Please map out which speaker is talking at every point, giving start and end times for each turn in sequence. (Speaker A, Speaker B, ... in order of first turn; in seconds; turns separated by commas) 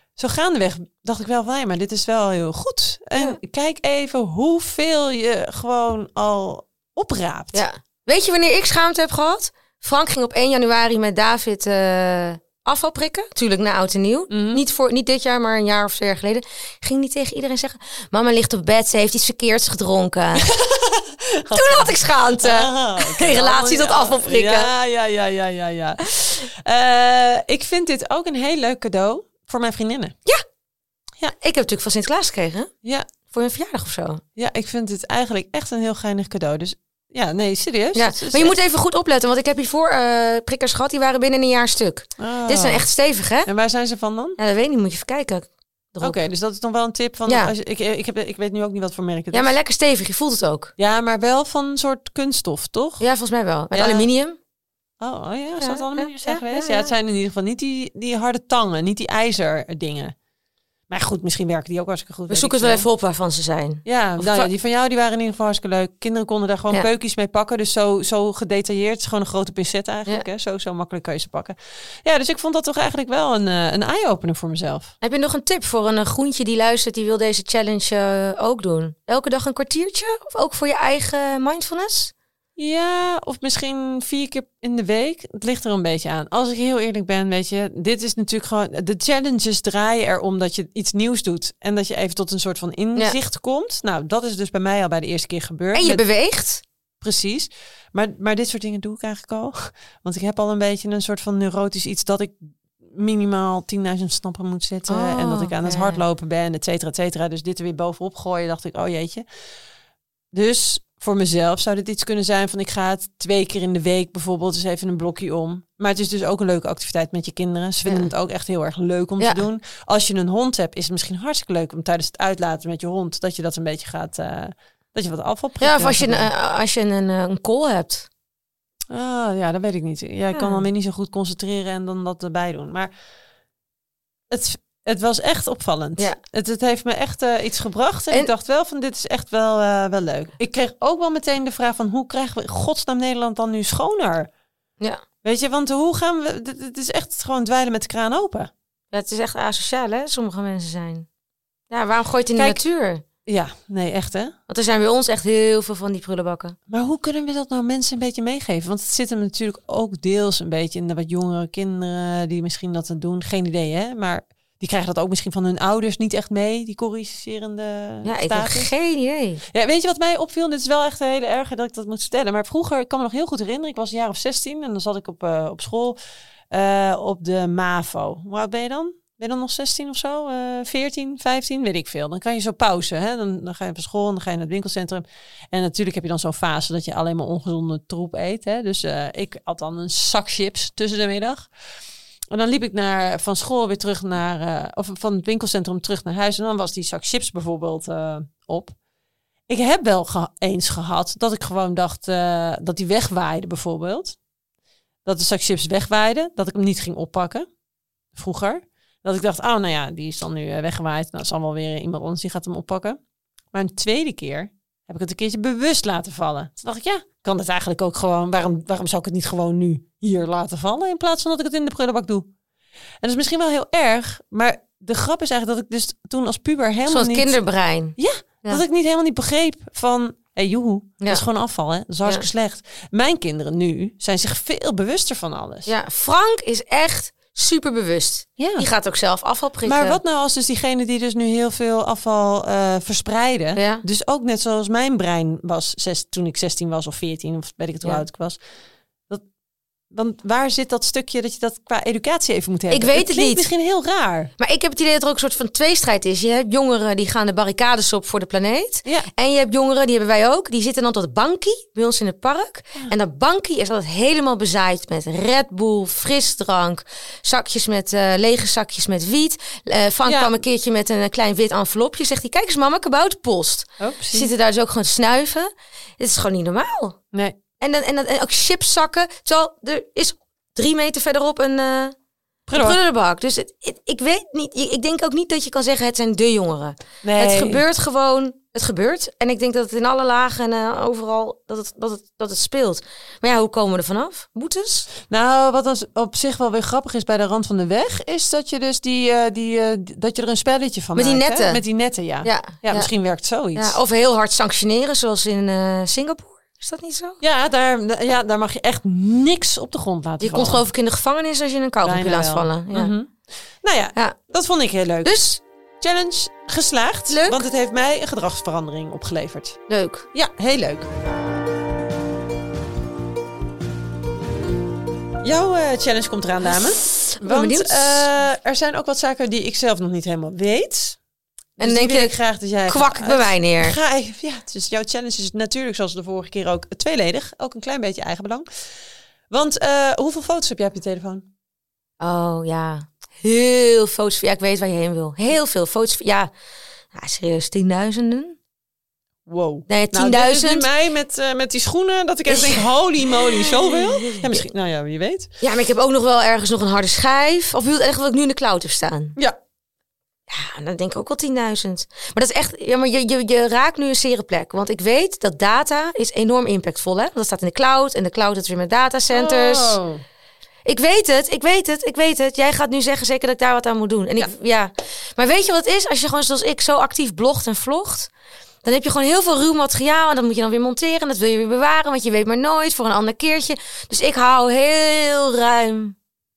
Speaker A: 0.2-7.6, Speaker B: 7.5-20.5, Speaker A: 14.3-14.6, Speaker A: 20.4-30.1, Speaker B: 21.5-24.7, Speaker B: 31.3-32.7, Speaker B: 33.3-34.2, Speaker A: 34.4-38.6, Speaker B: 37.9-43.5, Speaker A: 42.2-42.9, Speaker A: 43.4-44.4, Speaker B: 44.4-46.2, Speaker A: 46.0-49.6, Speaker B: 47.2-47.5, Speaker B: 49.3-50.7, Speaker A: 50.8-53.1, Speaker B: 53.0-54.4, Speaker A: 53.7-54.1, Speaker A: 55.0-60.1, Speaker B: 55.6-56.9, Speaker A: 60.9-62.9, Speaker B: 62.3-64.5, Speaker A: 63.9-74.9, Speaker B: 75.0-82.1, Speaker A: 82.6-96.0, Speaker B: 95.7-96.6, Speaker A: 97.0-109.2, Speaker B: 104.9-106.0, Speaker A: 110.3-126.3, Speaker B: 125.6-128.1, Speaker A: 128.9-132.9, Speaker B: 130.3-130.6, Speaker A: 134.3-144.3, Speaker A: 145.2-148.5, Speaker B: 148.9-151.1, Speaker B: 151.7-153.0, Speaker A: 153.2-154.3, Speaker B: 154.5-156.6, Speaker A: 156.7-168.7, Speaker B: 168.1-169.4, Speaker A: 169.5-176.0, Speaker A: 176.5-191.5, Speaker A: 192.3-198.8, Speaker A: 199.5-204.2, Speaker A: 205.1-207.5, Speaker A: 208.1-213.0, Speaker A: 213.5-222.3, Speaker A: 223.0-227.4, Speaker B: 226.9-228.6, Speaker A: 228.0-235.7, Speaker B: 235.7-240.0, Speaker A: 238.4-238.7, Speaker A: 239.6-248.4, Speaker B: 243.6-243.8, Speaker A: 249.9-254.3, Speaker B: 252.7-253.5, Speaker B: 254.4-277.0, Speaker A: 270.1-270.4, Speaker A: 273.8-274.3, Speaker B: 277.6-281.9, Speaker A: 282.5-282.8, Speaker B: 282.5-294.9, Speaker A: 287.0-287.6, Speaker A: 295.1-303.8, Speaker B: 300.9-301.6, Speaker B: 302.2-302.9, Speaker B: 303.6-307.2, Speaker A: 307.2-310.6, Speaker B: 310.2-312.9, Speaker A: 311.8-315.2, Speaker B: 315.0-315.4, Speaker A: 315.8-319.6, Speaker B: 317.1-317.4, Speaker B: 319.7-320.1, Speaker A: 320.1-320.9, Speaker A: 325.2-331.0, Speaker B: 326.6-328.1, Speaker A: 331.6-338.5, Speaker B: 331.6-332.1, Speaker B: 332.6-333.8, Speaker A: 339.3-341.3, Speaker B: 342.0-346.3, Speaker B: 346.9-348.4, Speaker A: 349.3-355.4, Speaker B: 349.7-350.7, Speaker B: 352.3-354.4, Speaker B: 355.4-359.1, Speaker B: 360.3-369.8, Speaker A: 369.1-370.0, Speaker B: 370.6-378.1, Speaker B: 378.6-385.9